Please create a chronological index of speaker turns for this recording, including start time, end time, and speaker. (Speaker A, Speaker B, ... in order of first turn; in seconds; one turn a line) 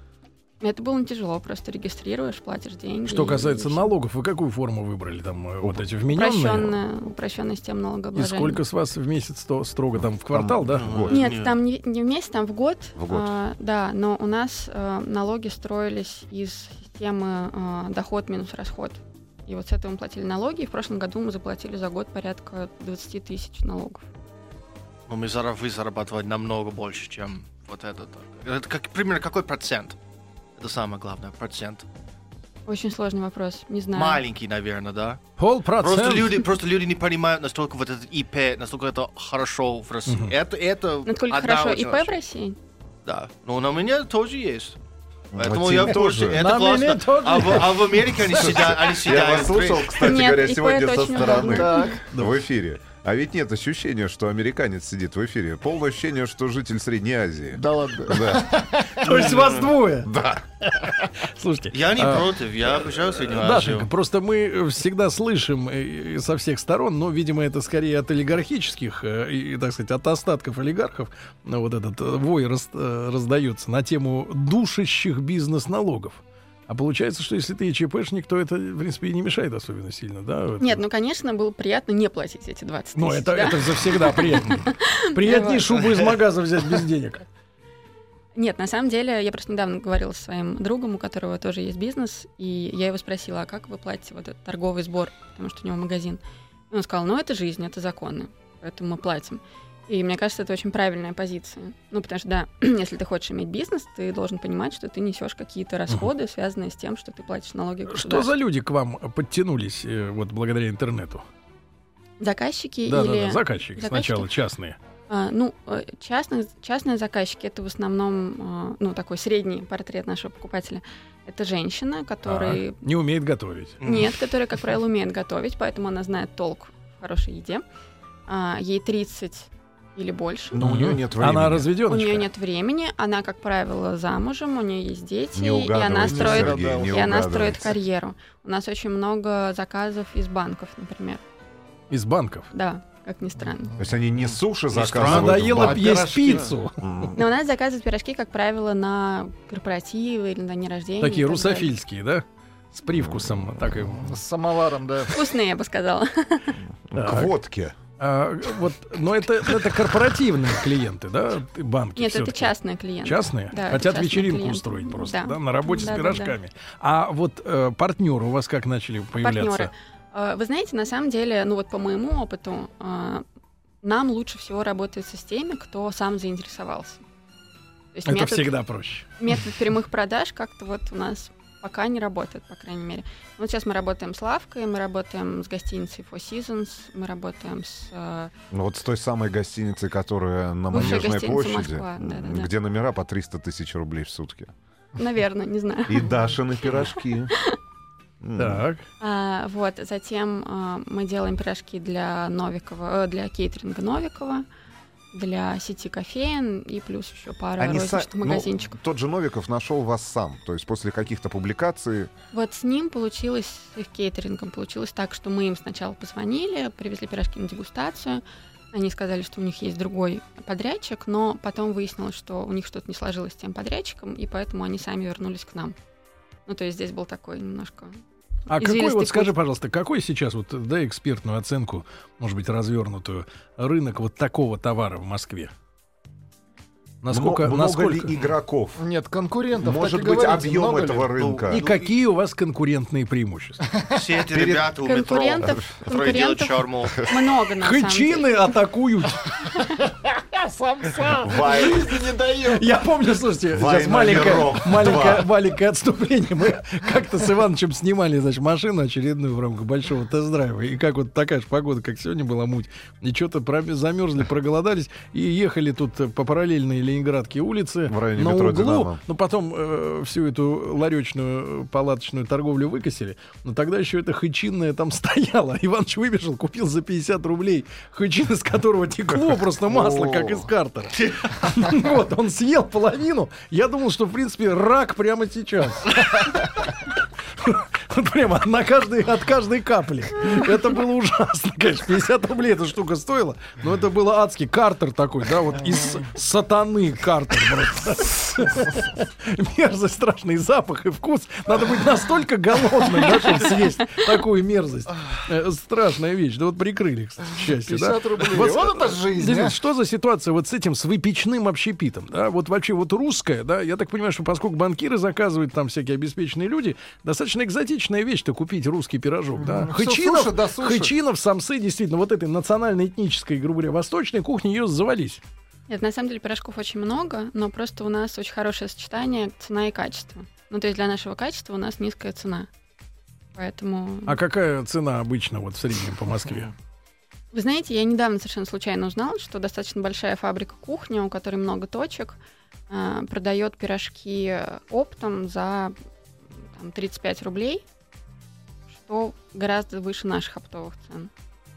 Speaker A: 0.6-3.9
Speaker B: 3.1-6.8
Speaker A: 6.1-8.6
Speaker B: 8.2-10.9
Speaker C: 10.0-11.2
Speaker D: 10.7-11.6
Speaker A: 11.1-24.0
Speaker C: 12.9-13.3
Speaker D: 25.1-30.0
Speaker D: 30.6-31.9
Speaker A: 32.7-34.2
Speaker D: 33.9-35.2
Speaker B: 35.4-36.4
Speaker D: 35.8-42.2
Speaker B: 40.1-40.4
Speaker A: 41.0-42.6
Speaker D: 43.0-44.8
Speaker C: 45.3-46.6
Speaker D: 45.3-50.1
Speaker B: 45.8-48.1
Speaker C: 48.2-58.6
Speaker A: 50.0-52.0
Speaker E: 51.4-52.1
Speaker B: 52.1-52.4
Speaker E: 57.5-59.1
Speaker B: 58.8-80.8
Speaker D: 59.1-59.7
Speaker C: 60.0-60.5
Speaker D: 61.7-63.9
Speaker A: 80.6-85.8
Speaker B: 83.0-87.2
Speaker A: 88.3-108.3
Speaker B: 107.9-111.2
Speaker A: 112.2-114.3
Speaker B: 112.9-114.8
Speaker A: 115.1-122.8
Speaker B: 122.3-123.8
Speaker D: 123.8-124.1
Speaker A: 123.8-127.6
Speaker A: 128.3-130.6
Speaker C: 130.5-131.7
Speaker B: 130.6-132.3
Speaker A: 131.9-141.2
Speaker C: 135.3-137.8
Speaker E: 136.0-137.1
Speaker B: 141.9-142.5
Speaker A: 142.5-143.8
Speaker C: 143.8-146.1
Speaker D: 144.2-145.5
Speaker B: 144.9-146.9
Speaker E: 145.4-146.6
Speaker C: 146.8-147.2
Speaker A: 147.1-151.7
Speaker B: 151.0-154.2
Speaker E: 154.0-155.2
Speaker A: 155.1-156.6
Speaker C: 156.9-157.8
Speaker B: 156.9-157.3
Speaker B: 158.0-162.5
Speaker A: 162.0-166.4
Speaker B: 163.0-169.7
Speaker A: 169.2-173.2
Speaker A: 173.8-177.0
Speaker A: 177.9-178.6
Speaker B: 178.1-179.1
Speaker A: 179.2-188.3
Speaker C: 188.5-194.5
Speaker A: 190.7-192.5
Speaker A: 195.0-196.2
Speaker C: 195.9-197.3
Speaker C: 198.2-198.7
Speaker B: 198.4-198.8
Speaker A: 199.0-204.4
Speaker A: 205.1-208.8
Speaker C: 207.6-212.1
Speaker A: 212.3-225.8
Speaker A: 226.5-228.0
Speaker B: 228.5-235.5
Speaker A: 228.5-229.3
Speaker B: 237.0-238.1
Speaker C: 237.1-238.8
Speaker E: 238.8-241.1
Speaker C: 239.6-241.6
Speaker D: 241.2-241.9
Speaker B: 241.5-243.6
Speaker E: 243.7-244.0
Speaker D: 243.9-247.1
Speaker C: 244.3-244.8
Speaker A: 244.8-248.5
Speaker B: 247.6-249.4
Speaker E: 249.7-252.7
Speaker C: 251.2-251.9
Speaker B: 252.5-286.5
Speaker C: 253.5-255.3
Speaker C: 267.9-269.0
Speaker C: 279.7-280.4
Speaker D: 281.0-281.3
Speaker B: 287.4-325.2
Speaker E: 307.6-309.6
Speaker E: 319.4-320.9
Speaker A: 325.7-332.5
Speaker A: 333.4-334.2
Speaker B: 334.1-336.5
Speaker A: 337.3-342.2
Speaker A: 342.7-345.8
Speaker A: 346.4-347.6
Speaker A: 348.7-351.1